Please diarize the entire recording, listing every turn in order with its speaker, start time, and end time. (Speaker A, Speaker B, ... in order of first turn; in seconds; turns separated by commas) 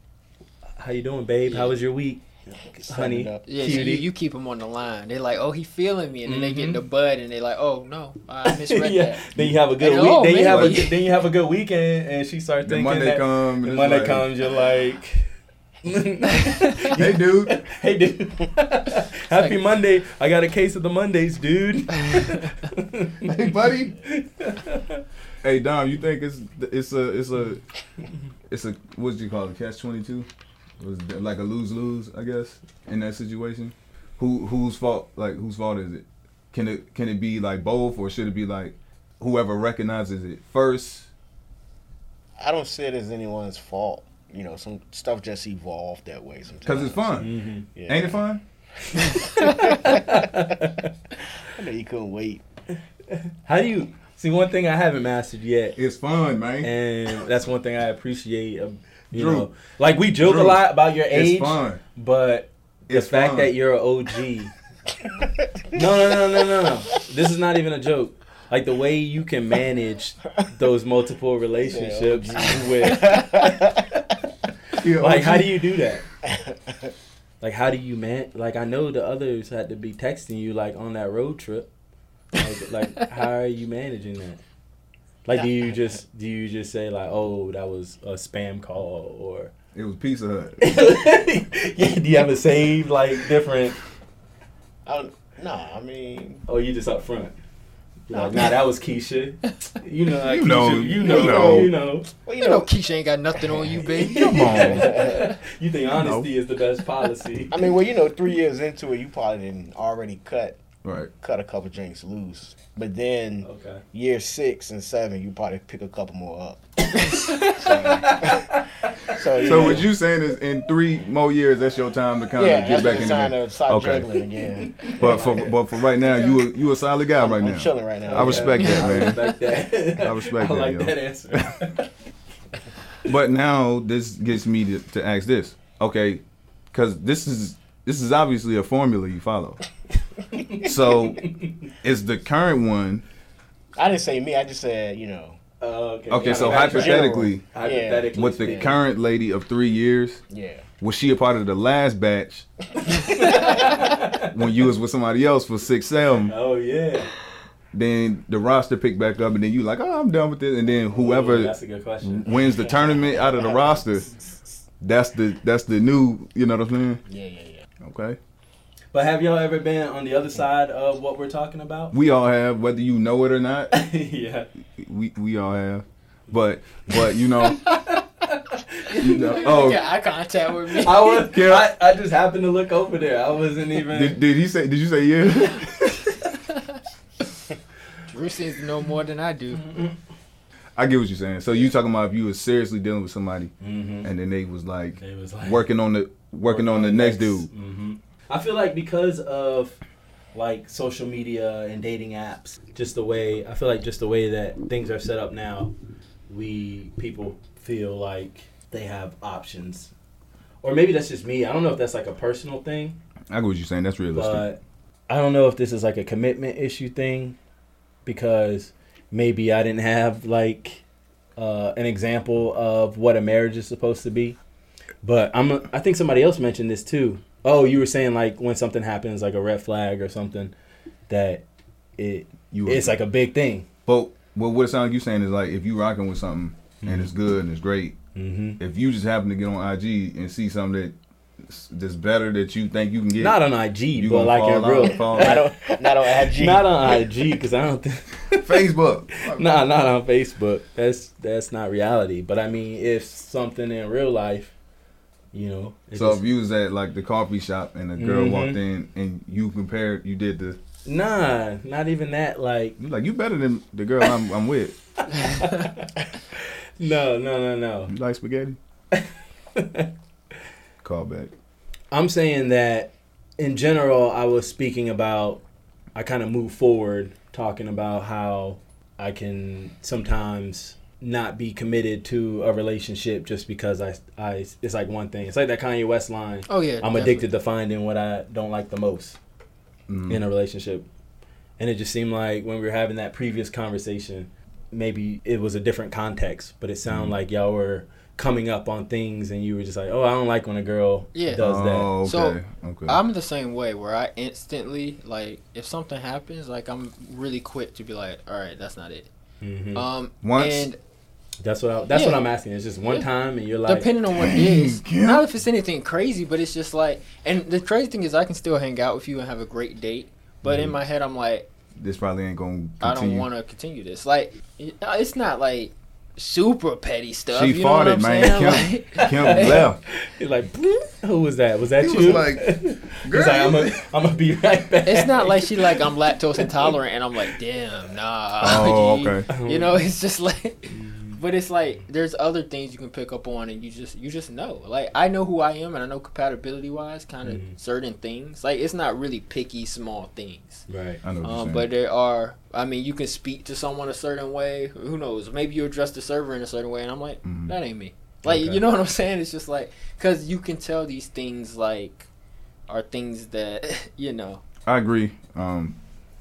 Speaker A: 0.8-4.1, Speaker B: 2.8-3.5, Speaker C: 3.5-9.2, Speaker A: 6.2-6.8, Speaker A: 8.4-15.3, Speaker C: 9.8-11.0, Speaker D: 10.5-10.8, Speaker D: 12.6-14.3, Speaker A: 15.8-23.4, Speaker C: 16.4-16.9, Speaker D: 16.9-17.6, Speaker C: 19.3-19.6, Speaker D: 23.2-23.9, Speaker A: 24.0-25.0, Speaker D: 25.4-27.6, Speaker D: 28.5-30.3, Speaker D: 30.8-41.1, Speaker B: 42.4-48.2, Speaker D: 46.6-47.3, Speaker A: 47.2-47.7, Speaker D: 47.9-48.4, Speaker B: 48.9-50.5, Speaker A: 49.1-50.9, Speaker B: 51.4-52.4, Speaker A: 53.1-55.8, Speaker D: 55.8-56.7, Speaker A: 56.6-64.5, Speaker D: 59.1-59.5, Speaker D: 60.2-61.8, Speaker D: 62.9-63.5, Speaker B: 65.0-66.7, Speaker A: 65.7-73.6, Speaker B: 71.6-73.9, Speaker D: 74.8-75.6, Speaker A: 74.8-76.0, Speaker B: 76.2-76.9, Speaker A: 77.4-81.7, Speaker A: 82.3-84.4, Speaker A: 85.2-89.5, Speaker D: 89.7-90.6, Speaker A: 90.6-93.8, Speaker B: 94.8-96.4, Speaker A: 96.5-97.3, Speaker A: 98.1-102.1, Speaker B: 98.1-98.6, Speaker D: 100.2-101.7, Speaker B: 101.0-101.7, Speaker B: 102.2-102.7, Speaker C: 102.3-105.1, Speaker B: 103.3-105.2, Speaker D: 104.0-105.0, Speaker A: 104.3-107.6, Speaker D: 105.9-106.3, Speaker B: 107.5-110.6, Speaker D: 110.8-111.1, Speaker B: 111.2-119.9, Speaker A: 113.4-113.8, Speaker C: 117.2-117.8, Speaker A: 117.9-119.8, Speaker D: 119.4-124.2, Speaker B: 122.3-125.5, Speaker A: 124.7-125.4, Speaker D: 124.9-129.3, Speaker B: 127.2-129.2, Speaker A: 128.1-131.9, Speaker D: 129.9-130.9, Speaker D: 133.0-139.6, Speaker A: 140.3-141.7, Speaker D: 140.6-143.0, Speaker B: 143.8-145.4, Speaker A: 145.6-148.7, Speaker D: 146.1-147.4, Speaker B: 146.2-148.8, Speaker D: 148.1-150.2, Speaker B: 150.3-150.7, Speaker D: 150.8-152.4, Speaker A: 152.8-154.3, Speaker D: 154.3-156.3, Speaker A: 156.3-157.1, Speaker D: 157.7-164.1, Speaker A: 160.9-162.3, Speaker B: 162.3-163.8, Speaker D: 164.8-167.0, Speaker B: 167.1-167.7, Speaker D: 167.8-168.2, Speaker A: 168.9-171.9, Speaker D: 171.9-173.7, Speaker A: 173.7-174.5, Speaker D: 174.7-177.7, Speaker A: 176.9-179.7, Speaker C: 178.9-181.3, Speaker D: 179.0-179.8, Speaker A: 180.8-184.2, Speaker D: 181.3-181.6, Speaker D: 183.8-186.1, Speaker C: 188.1-189.7, Speaker A: 189.5-189.9, Speaker D: 190.8-193.5, Speaker A: 193.6-194.1, Speaker D: 194.0-197.5, Speaker A: 195.0-195.6, Speaker A: 196.4-199.8, Speaker A: 200.3-205.7, Speaker A: 206.3-209.9, Speaker A: 210.6-213.0, Speaker D: 213.3-214.5, Speaker A: 214.1-217.4, Speaker A: 218.0-220.8, Speaker A: 221.3-224.4, Speaker A: 225.0-230.5, Speaker A: 231.1-231.4, Speaker A: 232.0-233.7, Speaker D: 232.5-232.9, Speaker D: 233.8-238.0, Speaker A: 236.8-237.1, Speaker A: 238.1-238.6, Speaker D: 238.6-243.4, Speaker A: 243.2-248.6, Speaker D: 243.9-245.4, Speaker B: 245.2-247.1, Speaker D: 248.4-249.5, Speaker A: 249.3-254.5, Speaker A: 255.3-256.2, Speaker D: 255.9-260.6, Speaker A: 258.0-258.6, Speaker A: 260.8-262.8, Speaker D: 262.8-264.7, Speaker A: 265.1-267.9, Speaker D: 267.9-268.6, Speaker A: 268.9-269.9, Speaker D: 270.8-271.3, Speaker A: 271.9-275.4, Speaker A: 275.9-289.2, Speaker C: 286.5-287.3, Speaker D: 289.9-290.2, Speaker A: 290.1-290.9, Speaker A: 291.6-301.9, Speaker D: 296.9-297.1, Speaker C: 301.1-309.1, Speaker D: 301.4-303.0, Speaker A: 309.4-309.9, Speaker C: 309.7-310.8, Speaker D: 310.2-310.7, Speaker A: 311.4-313.9, Speaker C: 311.9-312.2, Speaker C: 313.6-321.5, Speaker D: 314.1-315.2, Speaker A: 320.4-320.7, Speaker D: 321.8-323.3, Speaker C: 322.8-329.7, Speaker D: 327.3-329.8, Speaker A: 329.2-336.7, Speaker D: 331.8-333.8, Speaker C: 334.9-350.7, Speaker D: 338.4-339.2, Speaker A: 339.3-339.8, Speaker A: 340.7-341.2, Speaker A: 347.2-347.5, Speaker A: 350.7-351.0, Speaker D: 351.0-351.7, Speaker C: 351.2-362.1, Speaker D: 357.2-357.5, Speaker A: 358.2-358.6, Speaker C: 362.7-364.4, Speaker D: 364.6-365.8